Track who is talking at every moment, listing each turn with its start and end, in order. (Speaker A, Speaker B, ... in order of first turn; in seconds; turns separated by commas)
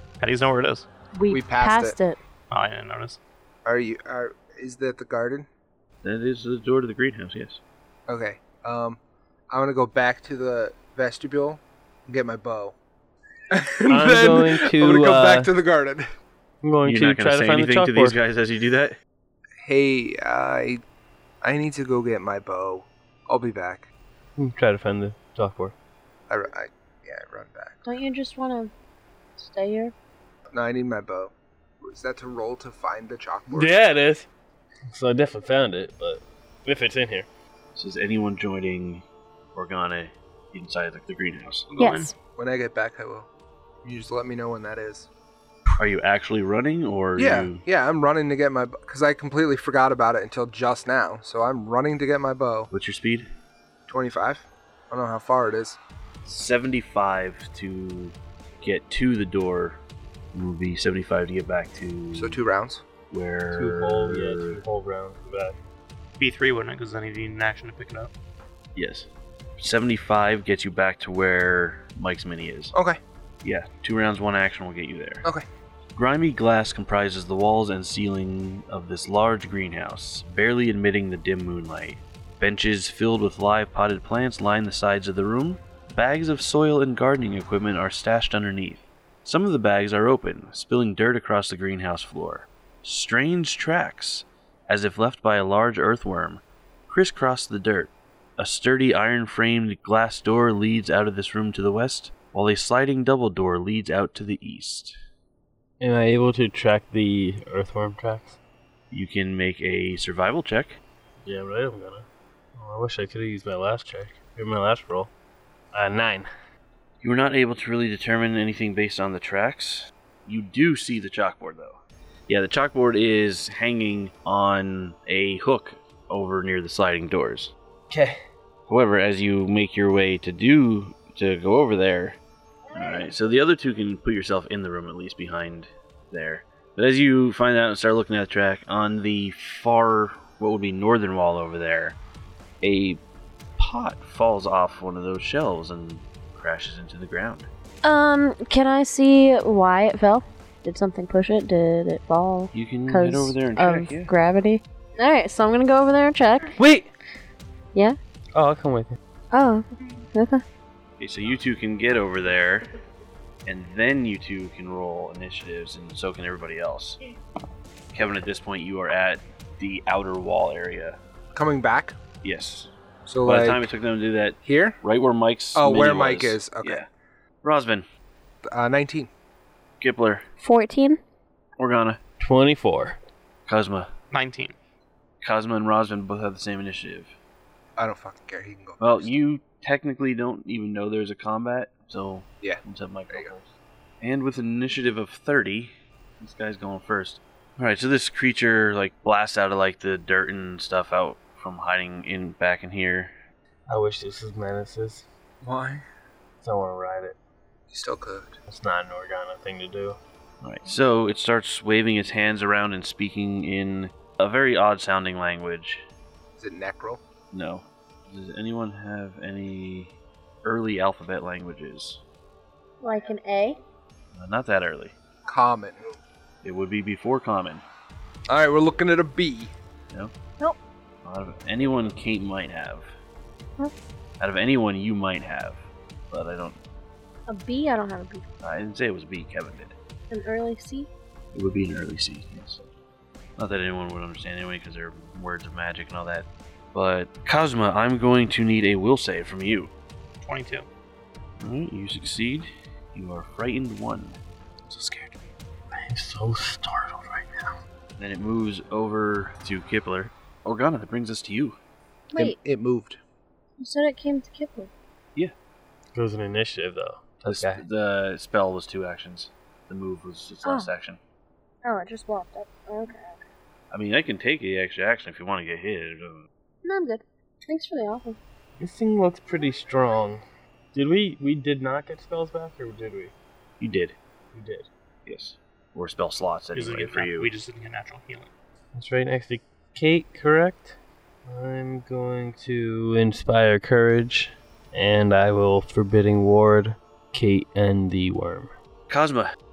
Speaker A: 0.2-0.9, Speaker B: 1.1-2.2, Speaker C: 1.3-2.0, Speaker A: 2.5-3.2, Speaker C: 3.6-5.5, Speaker D: 6.0-7.6, Speaker C: 8.1-9.0, Speaker C: 9.5-12.8, Speaker C: 13.5-16.1, Speaker E: 13.9-15.5, Speaker E: 16.6-18.2, Speaker D: 16.8-19.0, Speaker C: 19.6-20.8, Speaker C: 21.4-23.9, Speaker E: 24.4-25.7, Speaker C: 26.3-27.8, Speaker B: 27.9-28.7, Speaker B: 29.4-29.9, Speaker C: 30.5-33.8, Speaker E: 33.5-34.3, Speaker E: 34.9-37.3, Speaker D: 37.8-39.0, Speaker D: 39.5-41.7, Speaker A: 41.7-42.1, Speaker B: 41.8-42.1, Speaker C: 42.4-43.3, Speaker C: 43.8-45.1, Speaker D: 45.8-47.6, Speaker C: 47.2-52.7, Speaker D: 52.7-53.3, Speaker C: 53.9-55.8, Speaker D: 56.2-59.8, Speaker D: 60.3-62.4, Speaker C: 62.1-62.8, Speaker D: 63.1-64.6, Speaker E: 63.5-65.6, Speaker A: 66.2-68.1, Speaker D: 68.8-72.8, Speaker C: 72.7-73.0, Speaker D: 73.4-75.3, Speaker D: 75.9-104.9, Speaker E: 105.8-108.4, Speaker D: 108.9-110.8, Speaker E: 111.2-115.1, Speaker E: 115.7-116.3, Speaker D: 117.0-127.5, Speaker E: 127.9-128.2, Speaker D: 128.7-132.2, Speaker D: 132.7-142.0, Speaker D: 142.6-143.0, Speaker D: 143.6-147.5, Speaker B: 147.8-156.6, Speaker D: 152.5-154.1, Speaker E: 156.6-156.9, Speaker E: 158.3-159.0, Speaker B: 159.3-160.4, Speaker D: 161.0-162.7, Speaker D: 163.5-167.0, Speaker D: 167.9-171.0, Speaker C: 171.3-172.0, Speaker D: 172.2-172.7, Speaker C: 173.1-173.6, Speaker D: 173.2-176.9, Speaker C: 174.4-174.8, Speaker C: 175.6-176.8, Speaker D: 177.4-177.8, Speaker C: 178.4-179.1, Speaker D: 179.8-180.2, Speaker B: 180.4-181.0, Speaker D: 181.6-182.0, Speaker E: 182.2-182.9, Speaker D: 183.5-183.9, Speaker A: 184.1-184.6, Speaker D: 185.2-187.1, Speaker C: 187.8-189.1, Speaker D: 188.8-203.1, Speaker C: 192.4-193.3, Speaker E: 203.7-205.1, Speaker C: 205.4-205.8, Speaker E: 206.4-207.2, Speaker C: 207.7-208.3, Speaker E: 208.5-210.0, Speaker D: 210.4-215.8, Speaker C: 216.4-217.0, Speaker D: 217.3-222.0, Speaker B: 222.8-223.6, Speaker D: 224.1-224.9, Speaker C: 225.3-225.8, Speaker D: 226.4-227.6, Speaker C: 228.3-229.5, Speaker D: 231.0-232.9, Speaker D: 234.2-236.6, Speaker B: 237.3-238.2, Speaker D: 238.4-239.8, Speaker B: 240.1-240.9, Speaker D: 241.3-242.7, Speaker D: 243.4-249.7, Speaker A: 250.2-250.7, Speaker D: 251.4-254.2, Speaker A: 254.7-255.1, Speaker E: 255.7-257.6, Speaker D: 258.0-261.6, Speaker B: 262.1-262.4, Speaker C: 262.1-263.0, Speaker B: 263.6-264.7, Speaker E: 265.9-267.6, Speaker D: 267.3-271.0, Speaker B: 270.4-270.7, Speaker B: 271.6-273.2, Speaker D: 273.7-276.3, Speaker B: 276.6-278.2, Speaker E: 278.6-283.1, Speaker D: 283.6-284.0, Speaker E: 284.3-284.7, Speaker D: 285.1-287.3, Speaker A: 286.5-288.3, Speaker E: 288.7-298.5, Speaker D: 298.9-299.3